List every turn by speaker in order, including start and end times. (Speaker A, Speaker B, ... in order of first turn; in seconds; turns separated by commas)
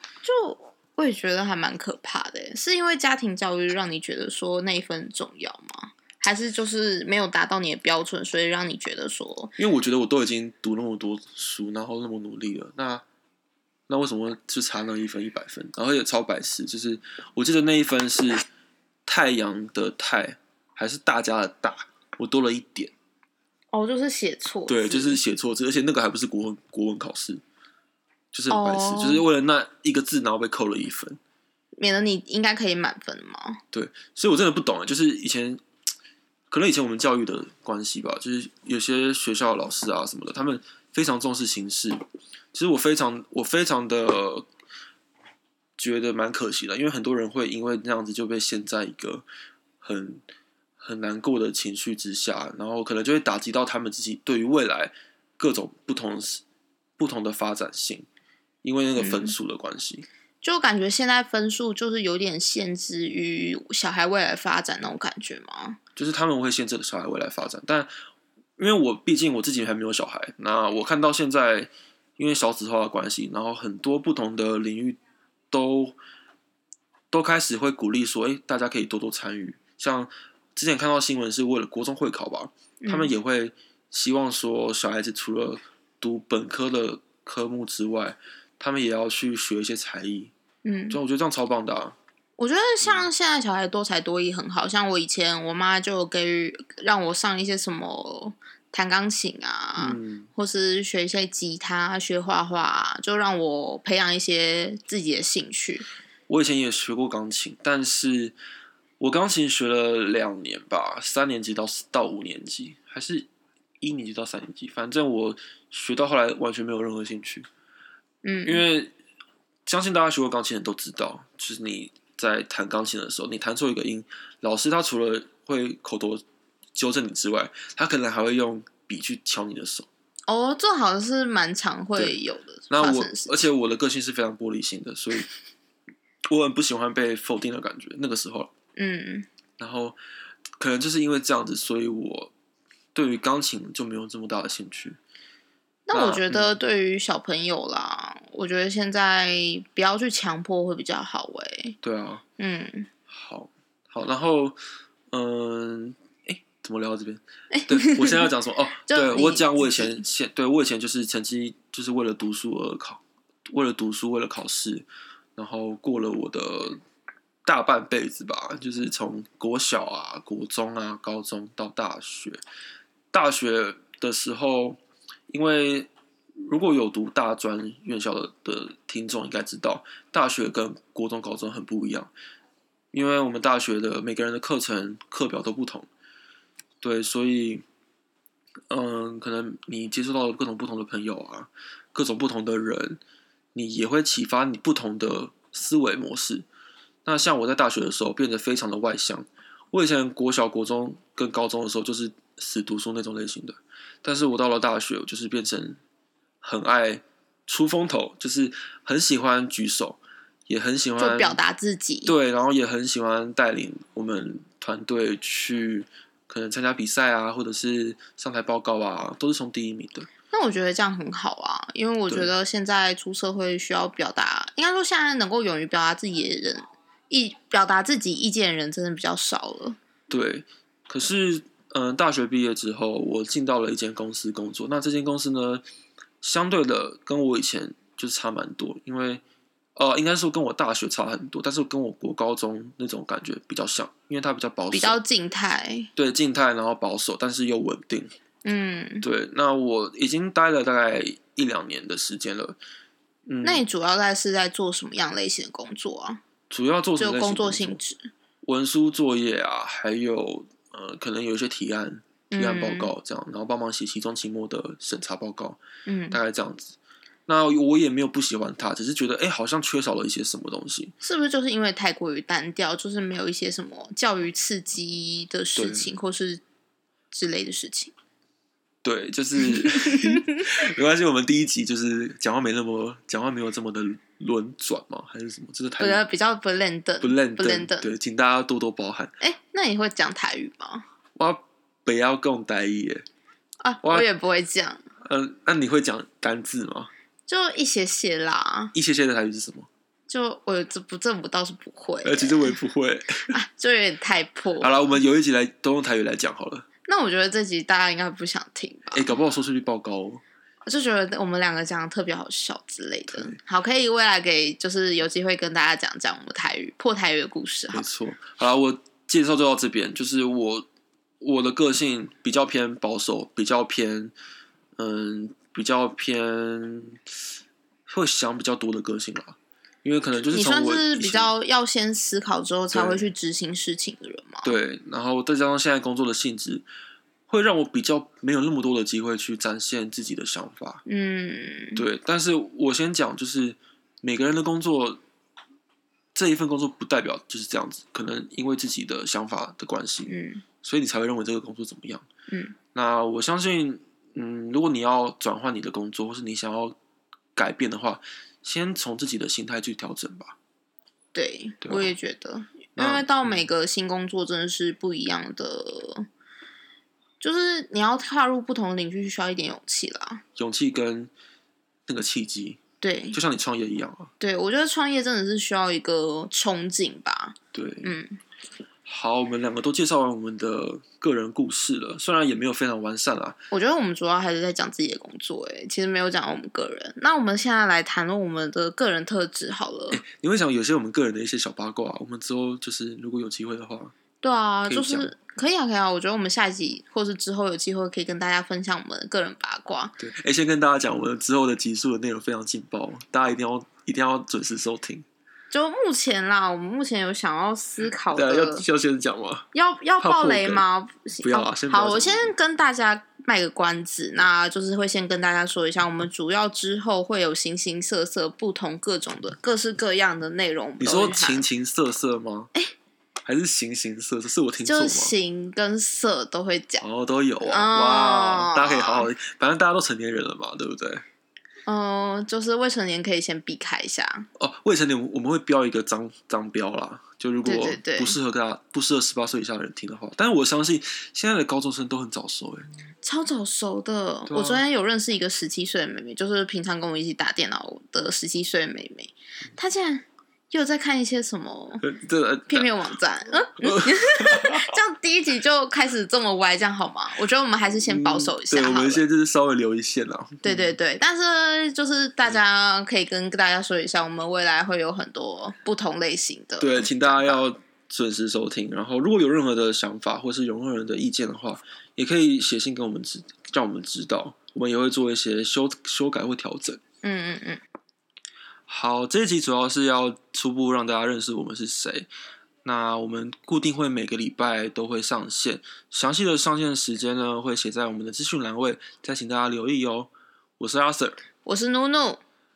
Speaker A: 0.2-9.6, Speaker B: 9.6-13.0, Speaker B: 13.9-18.5, Speaker B: 19.1-22.9, Speaker A: 23.7-25.2, Speaker B: 24.7-27.4, Speaker B: 28.3-31.2, Speaker A: 28.5-29.2, Speaker A: 31.8-33.6, Speaker B: 33.7-35.6, Speaker B: 36.5-42.0, Speaker B: 42.5-44.5, Speaker B: 45.8-49.3, Speaker B: 49.8-50.2, Speaker B: 50.8-56.4, Speaker B: 57.0-58.1, Speaker B: 58.6-60.1, Speaker A: 59.0-59.4, Speaker A: 60.4-65.8, Speaker B: 66.0-67.9, Speaker B: 68.6-75.0, Speaker B: 75.5-76.0, Speaker B: 77.1-90.3, Speaker A: 82.8-83.1, Speaker A: 90.7-91.0, Speaker B: 90.9-92.0, Speaker A: 92.4-105.9, Speaker B: 99.8-100.3, Speaker B: 106.3-108.4, Speaker B: 109.0-113.3, Speaker B: 113.8-117.5, Speaker A: 118.2-118.6, Speaker B: 118.4-118.9, Speaker B: 119.7-126.2, Speaker B: 126.8-129.9, Speaker A: 130.3-133.4, Speaker B: 132.7-135.3, Speaker B: 136.3-138.5, Speaker A: 138.8-139.3, Speaker B: 139.6-140.0, Speaker B: 140.6-142.3, Speaker B: 142.9-145.0, Speaker A: 145.9-151.8, Speaker B: 145.9-146.6, Speaker B: 151.8-152.2, Speaker A: 152.4-152.9, Speaker B: 153.1-154.6, Speaker B: 155.1-166.8, Speaker A: 157.5-158.3, Speaker A: 158.9-160.0, Speaker B: 167.4-172.4, Speaker B: 173.1-182.1, Speaker B: 182.9-185.9, Speaker B: 186.8-187.6, Speaker B: 188.7-193.0, Speaker B: 193.6-196.4, Speaker B: 197.1-205.8, Speaker B: 206.4-211.4, Speaker A: 211.0-212.1, Speaker B: 212.1-220.1, Speaker A: 220.3-229.8, Speaker B: 222.1-222.3, Speaker B: 230.1-235.6, Speaker B: 236.2-239.2, Speaker B: 239.8-245.0, Speaker A: 244.7-245.9, Speaker B: 246.0-248.1, Speaker A: 248.4-249.1, Speaker B: 249.0-252.6, Speaker B: 253.3-253.6, Speaker A: 253.4-256.2, Speaker B: 256.5-257.8, Speaker A: 257.0-258.1, Speaker B: 258.4-265.6, Speaker A: 262.3-262.9, Speaker A: 265.9-266.2, Speaker B: 266.1-266.8, Speaker B: 267.3-270.9, Speaker A: 271.0-276.4, Speaker B: 275.6-275.9, Speaker A: 277.1-277.9, Speaker B: 278.8-286.0, Speaker A: 279.6-280.4, Speaker A: 285.8-287.9, Speaker B: 287.0-289.1, Speaker A: 289.2-290.9, Speaker B: 291.2-293.1, Speaker A: 293.6-294.8, Speaker B: 293.8-294.1, Speaker B: 295.0-296.9, Speaker A: 297.3-298.7, Speaker B: 298.7-299.7, Speaker A: 300.1-302.6, Speaker B: 302.0-303.3, Speaker A: 303.3-304.9, Speaker B: 304.6-306.7, Speaker A: 306.9-309.1, Speaker B: 308.9-310.2, Speaker A: 310.7-317.9, Speaker B: 313.1-313.4, Speaker B: 317.7-320.7, Speaker B: 321.2-324.1, Speaker B: 324.8-327.0, Speaker B: 327.9-331.3, Speaker A: 330.3-334.6, Speaker B: 332.7-333.1, Speaker B: 334.4-336.6, Speaker B: 337.3-340.8, Speaker A: 340.9-341.8, Speaker B: 341.8-345.0, Speaker B: 346.1-352.1, Speaker A: 350.1-350.4, Speaker A: 352.3-352.6, Speaker B: 352.8-356.8, Speaker B: 357.4-360.4, Speaker A: 361.1-366.1, Speaker B: 361.6-361.9, Speaker B: 362.8-363.5, Speaker A: 367.2-370.2, Speaker B: 370.4-371.1, Speaker B: 371.9-372.6, Speaker A: 372.8-373.2, Speaker B: 373.1-374.1, Speaker A: 374.2-378.2, Speaker B: 377.5-378.0, Speaker B: 378.9-383.4, Speaker A: 383.5-390.0, Speaker B: 389.9-393.9, Speaker A: 394.2-400.0, Speaker B: 394.7-395.1, Speaker B: 400.0-405.1, Speaker A: 405.5-408.7, Speaker B: 408.1-409.5, Speaker A: 409.5-421.5, Speaker B: 410.0-410.6, Speaker B: 411.2-412.3, Speaker B: 420.8-422.5, Speaker B: 423.3-425.1, Speaker A: 424.6-426.8, Speaker B: 426.8-431.0, Speaker A: 427.4-429.1, Speaker A: 431.7-434.3, Speaker B: 434.4-442.7, Speaker A: 437.4-438.2, Speaker A: 443.0-451.8, Speaker B: 444.3-444.6, Speaker B: 451.8-452.7, Speaker A: 452.5-459.0, Speaker B: 453.6-454.7, Speaker B: 457.9-460.8, Speaker A: 460.4-467.4, Speaker B: 466.6-476.8, Speaker A: 477.0-477.6, Speaker B: 478.7-482.1, Speaker B: 482.6-491.2, Speaker A: 491.4-492.2